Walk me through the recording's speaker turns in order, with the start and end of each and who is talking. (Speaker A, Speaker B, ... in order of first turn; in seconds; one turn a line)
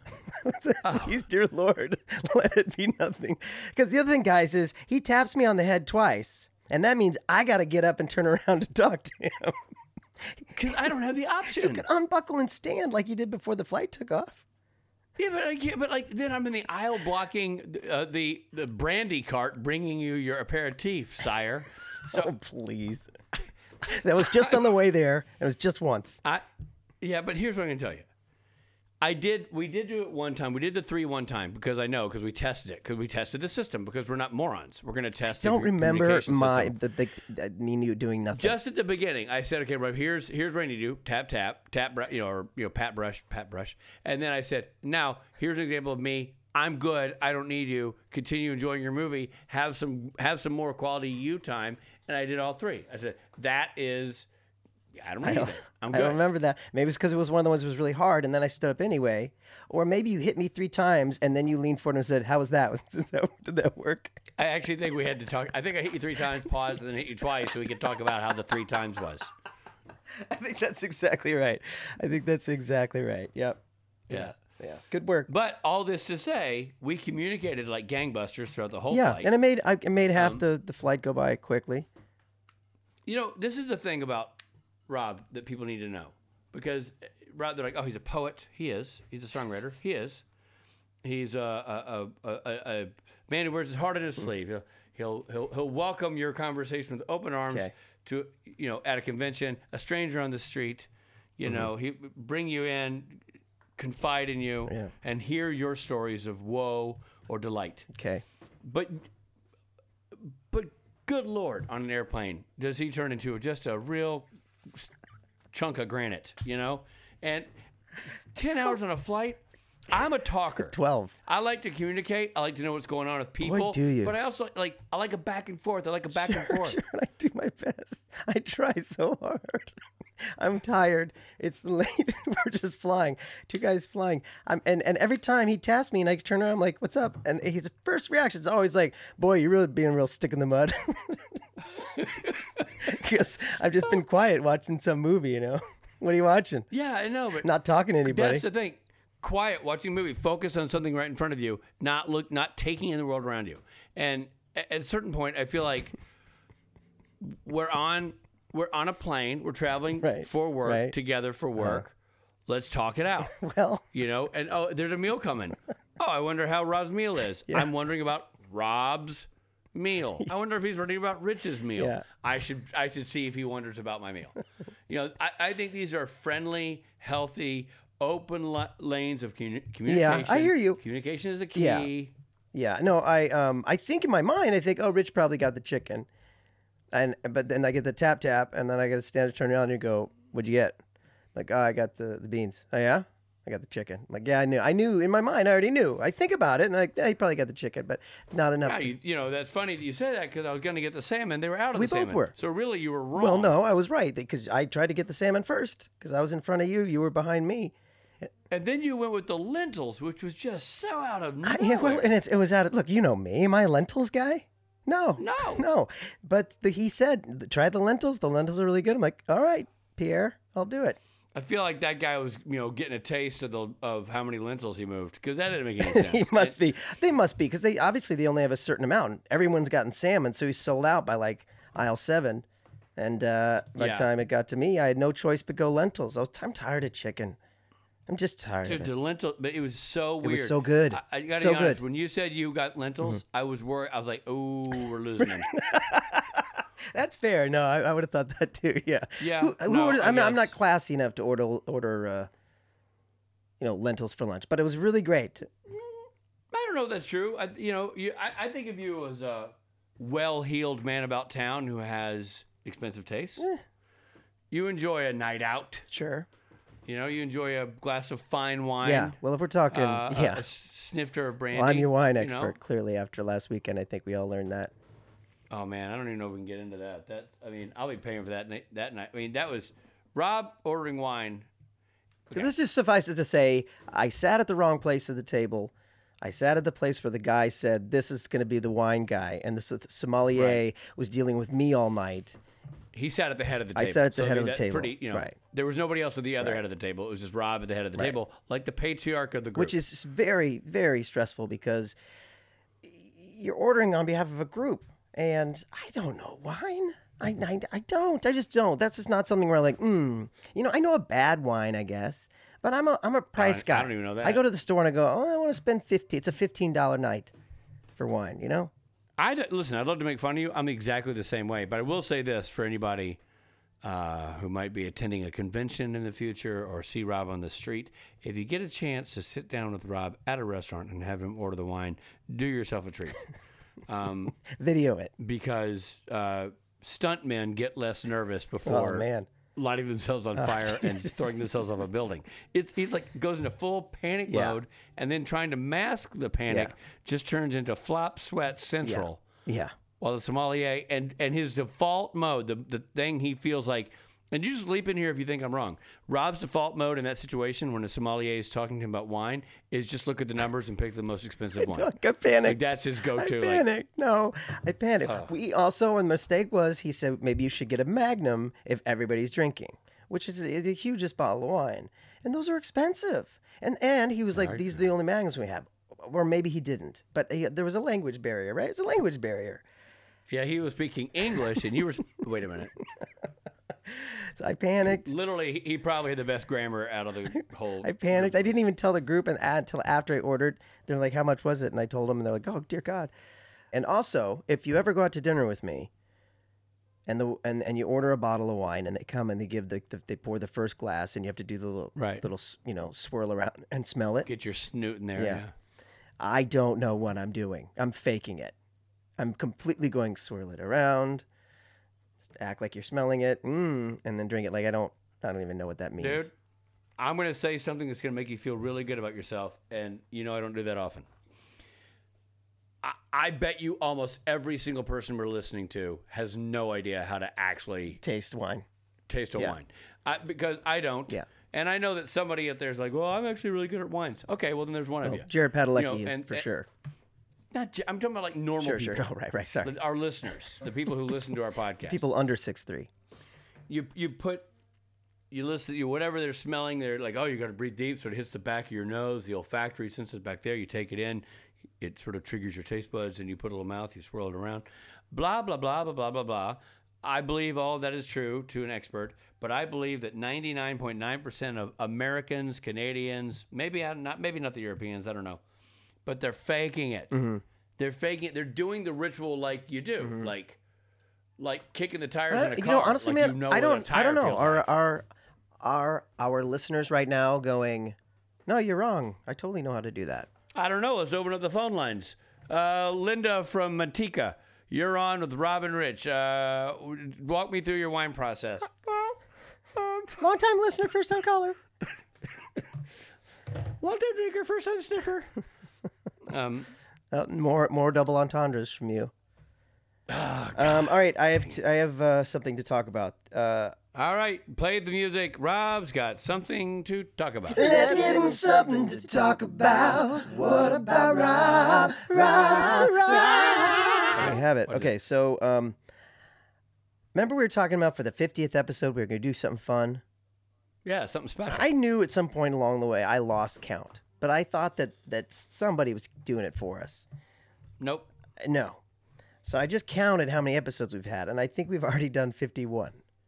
Speaker A: 0.2-9.6
Speaker B: 0.8-1.1
Speaker B: 10.5-11.9
Speaker A: 11.5-14.4
Speaker B: 15.2-22.3
Speaker A: 22.1-23.1
Speaker A: 23.8-26.2
Speaker B: 27.0-28.1
Speaker B: 29.0-36.7
Speaker A: 35.3-38.5
Speaker B: 38.4-54.3
Speaker B: 54.9-56.2
Speaker A: 55.2-64.2
Speaker B: 64.4-69.3
Speaker A: 70.3-75.3
Speaker B: 75.3-79.3
Speaker A: 78.9-81.9
Speaker B: 80.2-80.4
Speaker B: 83.0-90.2
Speaker B: 91.0-103.2
Speaker B: 103.8-107.9
Speaker A: 107.9-108.2
Speaker B: 108.6-109.1
Speaker B: 110.1-114.9
Speaker B: 115.5-117.5
Speaker B: 118.3-126.8
Speaker A: 120.7-121.2
Speaker A: 123.4-124.1
Speaker A: 126.1-129.7
Speaker A: 130.3-141.2
Speaker B: 141.8-142.6
Speaker A: 142.8-146.7
Speaker B: 146.7-147.5
Speaker A: 147.4-148.4
Speaker B: 148.0-155.9
Speaker B: 157.2-161.9
Speaker A: 160.0-160.9
Speaker A: 161.6-161.8
Speaker B: 162.5-163.3
Speaker A: 163.2-163.9
Speaker B: 163.9-182.1
Speaker A: 171.8-172.0
Speaker A: 179.8-180.8
Speaker A: 181.5-181.9
Speaker A: 182.5-186.1
Speaker A: 186.9-190.8
Speaker A: 191.3-198.9
Speaker B: 198.6-203.6
Speaker A: 201.7-202.3
Speaker A: 203.1-208.3
Speaker B: 208.5-212.1
Speaker A: 211.4-221.0
Speaker B: 215.2-215.6
Speaker B: 221.3-226.6
Speaker A: 225.8-232.4
Speaker A: 233.0-237.4
Speaker B: 233.8-234.1
Speaker A: 238.1-238.9
Speaker B: 238.6-245.5
Speaker A: 240.2-241.8
Speaker A: 245.5-252.3
Speaker B: 249.2-250.5
Speaker A: 253.6-255.5
Speaker B: 256.5-263.4
Speaker B: 264.5-265.9
Speaker A: 265.9-266.3
Speaker B: 266.8-269.2
Speaker A: 268.8-270.4
Speaker B: 269.7-272.6
Speaker A: 271.5-274.7
Speaker B: 275.5-281.5
Speaker A: 282.3-292.4
Speaker B: 290.3-290.6
Speaker B: 292.9-299.8
Speaker A: 293.7-295.3
Speaker A: 299.5-301.9
Speaker A: 302.8-317.3
Speaker B: 313.4-314.4
Speaker A: 317.9-318.7
Speaker B: 319.2-323.2
Speaker B: 323.8-333.2
Speaker B: 333.9-334.4
Speaker A: 334.4-335.1
Speaker B: 335.2-349.2
Speaker A: 338.6-339.3
Speaker A: 340.4-341.2
Speaker A: 344.3-344.6
Speaker A: 346.5-346.7
Speaker A: 348.8-349.7
Speaker B: 350.0-361.9
Speaker A: 361.6-362.6
Speaker B: 362.4-363.6
Speaker A: 363.1-379.6
Speaker B: 365.1-365.3
Speaker B: 374.4-374.8
Speaker B: 380.3-382.7
Speaker A: 383.9-385.1
Speaker B: 384.8-388.6
Speaker A: 387.8-393.1
Speaker A: 393.7-395.9
Speaker A: 397.1-404.3
Speaker B: 401.9-402.2
Speaker B: 404.2-405.5
Speaker A: 405.1-405.4
Speaker A: 406.2-408.5
Speaker A: 409.2-411.2
Speaker A: 412.3-416.3
Speaker B: 416.0-416.3
Speaker B: 417.0-421.1
Speaker B: 422.8-428.0
Speaker A: 428.0-428.6
Speaker B: 429.1-436.5
Speaker A: 435.0-436.7
Speaker B: 437.5-439.1
Speaker A: 438.6-439.7
Speaker B: 439.6-442.0
Speaker A: 441.9-442.9
Speaker B: 443.7-444.5
Speaker B: 445.3-451.2
Speaker B: 451.8-465.4
Speaker B: 466.0-467.1
Speaker A: 467.1-467.4
Speaker B: 467.8-470.6
Speaker A: 470.0-470.3
Speaker B: 471.4-474.7
Speaker A: 472.3-475.1
Speaker A: 475.6-477.9
Speaker A: 478.5-480.3
Speaker B: 480.5-489.1
Speaker B: 489.8-490.1
Speaker A: 490.1-491.6
Speaker B: 493.8-495.3
Speaker B: 496.2-496.7
Speaker A: 497.1-499.1
Speaker B: 500.1-501.0
Speaker A: 500.5-503.7
Speaker B: 503.9-507.8
Speaker A: 507.5-515.8
Speaker B: 513.3-514.9
Speaker A: 517.1-520.0
Speaker B: 520.8-521.7
Speaker A: 521.5-527.0
Speaker B: 527.8-528.1
Speaker A: 528.4-528.8
Speaker A: 529.4-533.0